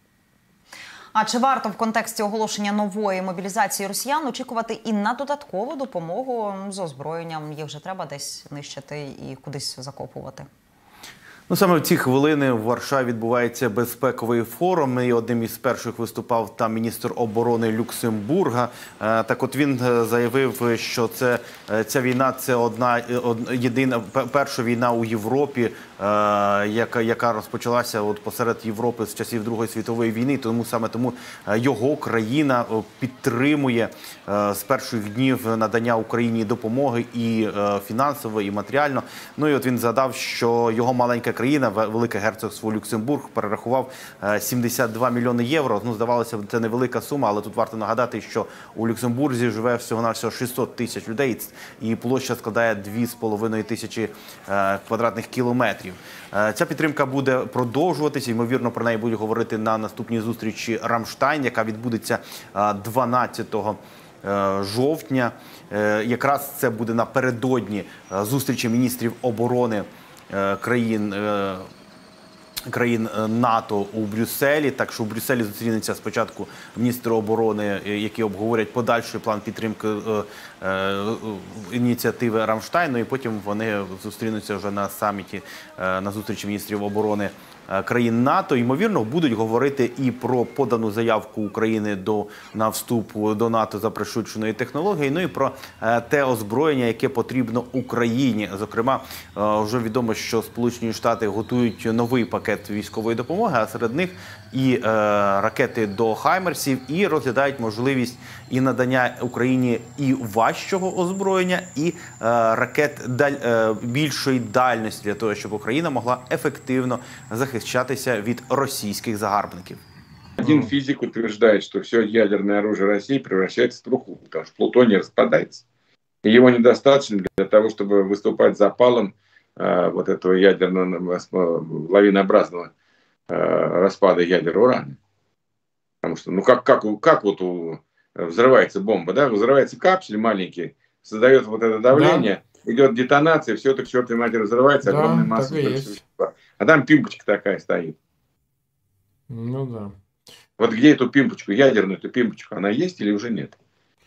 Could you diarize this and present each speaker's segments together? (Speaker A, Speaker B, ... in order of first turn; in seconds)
Speaker A: 1.1-10.5
Speaker B: 11.5-71.7, 72.7-119.8
Speaker C: 120.4-125.6, 126.2-132.7, 133.3-135.0, 136.0-148.0, 150.6-153.5
Speaker D: 120.4-120.7, 141.9-142.3, 144.8-145.9, 149.3-149.9